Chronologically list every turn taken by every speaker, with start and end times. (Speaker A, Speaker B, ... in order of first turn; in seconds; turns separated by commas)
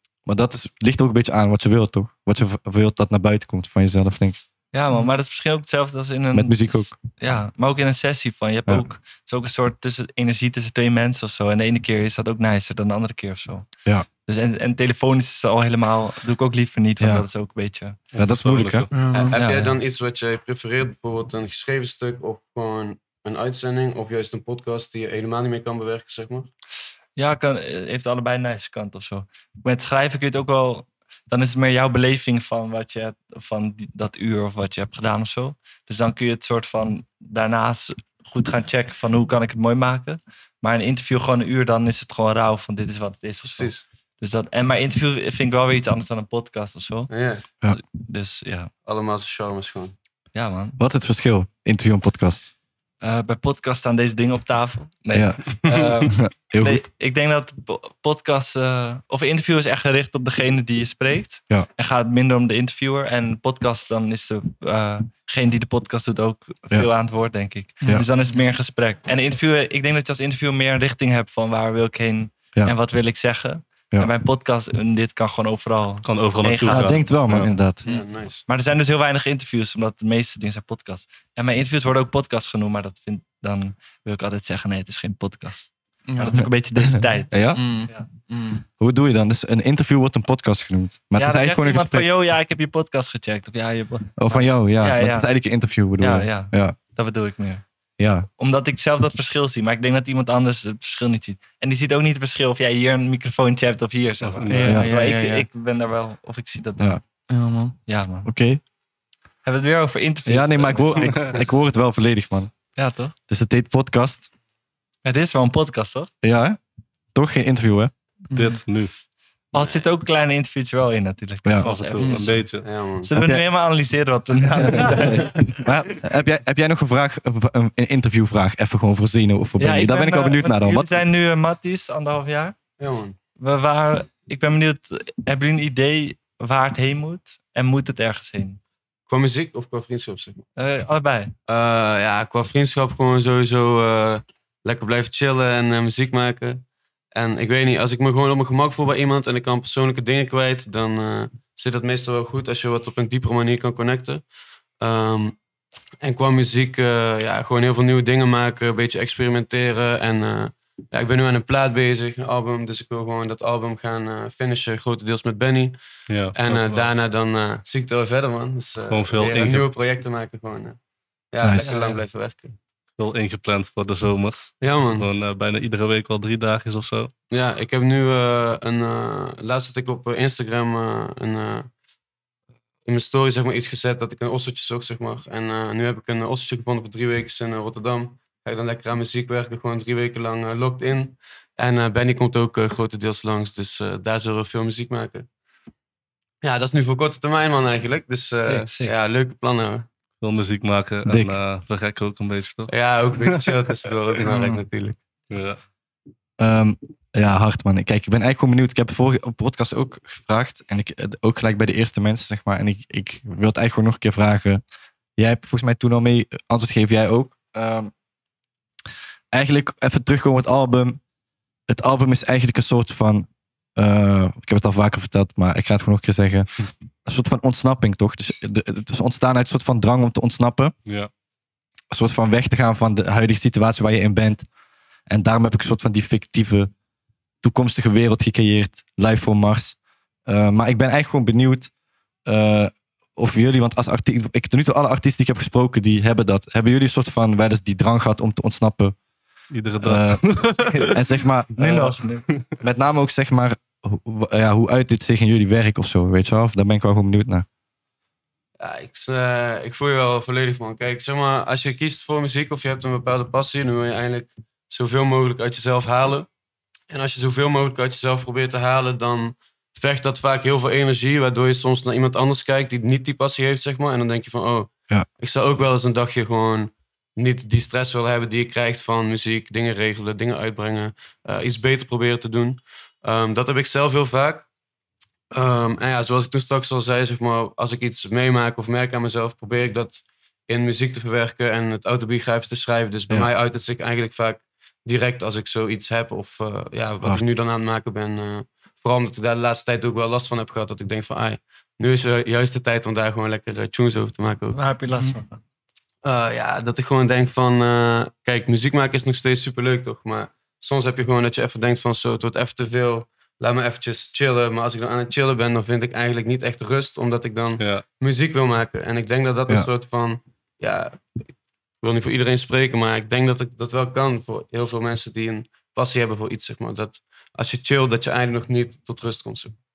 Speaker A: 0.3-4.4, Speaker B: 4.7-13.7, Speaker A: 6.3-6.9, Speaker B: 14.2-18.0, Speaker A: 17.0-17.3, Speaker A: 18.1-18.9, Speaker C: 18.1-18.9, Speaker D: 18.9-19.4, Speaker E: 19.1-26.5, Speaker B: 19.3-19.8, Speaker B: 27.2-47.1, Speaker E: 43.4-43.8, Speaker E: 47.1-47.4, Speaker B: 47.7-48.7, Speaker E: 48.9-49.9, Speaker B: 50.4-50.8, Speaker A: 50.8-52.5, Speaker B: 53.0-77.1, Speaker A: 55.1-56.8, Speaker D: 67.8-68.1, Speaker C: 76.0-77.5, Speaker A: 76.7-77.8, Speaker E: 77.9-78.4, Speaker B: 78.5-88.1, Speaker D: 86.1-86.5, Speaker A: 86.3-87.6, Speaker D: 87.5-88.6, Speaker A: 88.8-92.1, Speaker B: 91.2-95.3, Speaker A: 94.2-96.8, Speaker B: 96.0-97.6, Speaker A: 98.0-98.3, Speaker B: 98.4-107.0, Speaker C: 104.2-104.8, Speaker D: 104.5-105.5, Speaker D: 107.3-107.8, Speaker B: 107.9-108.3, Speaker A: 108.2-108.6, Speaker B: 109.4-111.4, Speaker A: 110.3-112.5, Speaker B: 112.8-113.1, Speaker A: 113.3-114.3, Speaker B: 115.0-116.1, Speaker A: 116.2-116.6, Speaker A: 117.1-117.9, Speaker D: 118.3-118.6, Speaker C: 118.3-118.9, Speaker B: 119.5-122.4, Speaker E: 119.6-119.8, Speaker A: 121.4-121.7, Speaker C: 121.6-122.7, Speaker D: 122.0-122.4, Speaker E: 122.6-123.1, Speaker B: 123.0-125.6, Speaker A: 123.2-123.5, Speaker A: 124.6-131.0, Speaker B: 129.6-132.6, Speaker E: 132.8-133.2, Speaker B: 133.4-138.6, Speaker E: 139.1-140.5, Speaker B: 140.6-141.3, Speaker E: 141.5-154.2, Speaker E: 154.8-155.4, Speaker E: 156.0-165.8, Speaker C: 166.1-166.9, Speaker E: 166.3-170.8, Speaker C: 168.9-169.7, Speaker E: 171.3-172.6, Speaker A: 171.4-171.7, Speaker B: 171.6-172.0, Speaker C: 173.0-177.1, Speaker E: 174.6-175.1, Speaker E: 177.3-181.7, Speaker E: 182.8-195.3, Speaker E: 196.4-199.9, Speaker B: 198.4-198.9, Speaker C: 200.2-203.5, Speaker A: 201.1-201.3, Speaker E: 202.7-205.0, Speaker D: 204.3-204.6, Speaker C: 205.3-205.6, Speaker A: 206.4-214.6, Speaker A: 215.2-217.9, Speaker A: 219.3-221.0, Speaker A: 221.7-226.5, Speaker A: 227.1-230.7, Speaker A: 231.9-234.4, Speaker A: 235.1-236.7, Speaker A: 237.4-241.7, Speaker A: 242.3-248.9, Speaker C: 249.5-250.9, Speaker A: 249.8-250.2, Speaker A: 250.9-252.0, Speaker B: 251.6-252.2, Speaker A: 252.6-257.5, Speaker E: 258.6-266.3, Speaker E: 266.9-284.5, Speaker E: 285.3-304.6, Speaker B: 304.5-305.4, Speaker E: 306.0-321.2, Speaker E: 321.8-329.6